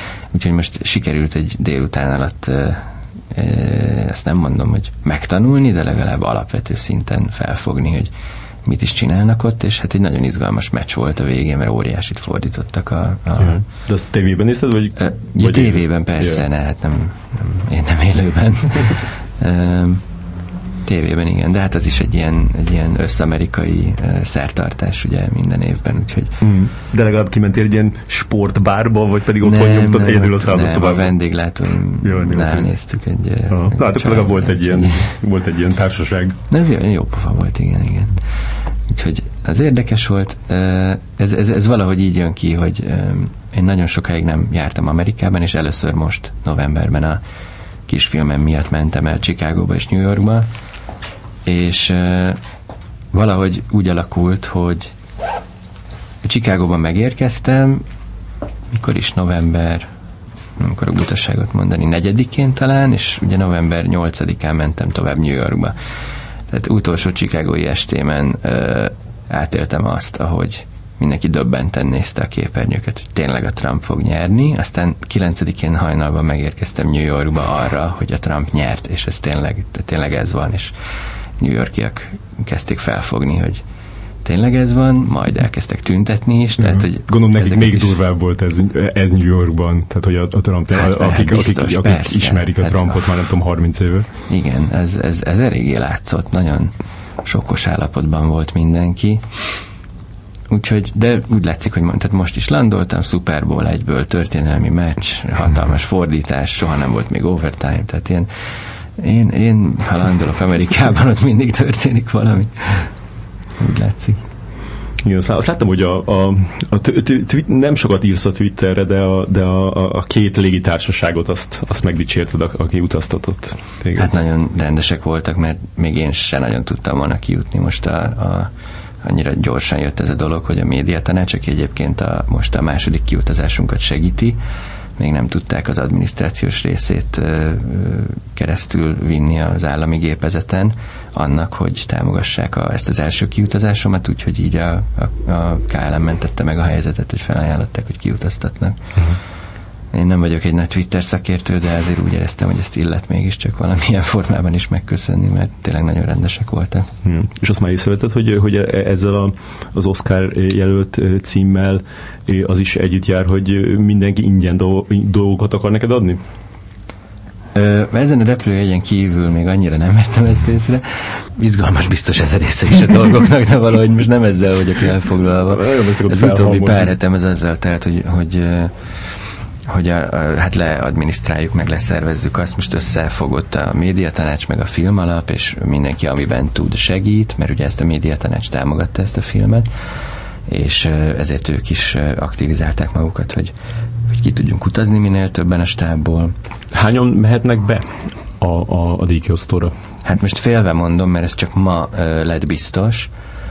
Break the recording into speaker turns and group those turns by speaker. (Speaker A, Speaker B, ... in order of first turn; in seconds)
Speaker A: 0.3-8.1, 8.6-13.6, 15.0-20.0, 20.8-26.4, 29.4-35.1, 36.5-38.2, 38.9-47.2, 47.9-50.5, 51.5-52.4, 53.1-54.9, 56.2-57.8, 58.7-59.9, 60.6-65.7, 66.5-80.7, 81.4-83.6, 84.2-88.0, 90.8-93.1, 94.3-96.7, 97.2-99.7, 100.5-108.3, 109.0-112.9, 113.6-114.2, 123.9-128.5, 129.0-134.4, 135.0-148.9, 149.9-156.9, 167.5-178.7, 179.7-189.7, 190.5-193.5, 194.1-196.3, 200.0-203.1
Speaker B: 13.4-16.4, 26.4-31.1, 32.0-32.7, 33.5-36.4, 86.6-94.1, 115.0-124.1, 157.0-166.2, 175.5-176.9, 196.7-199.7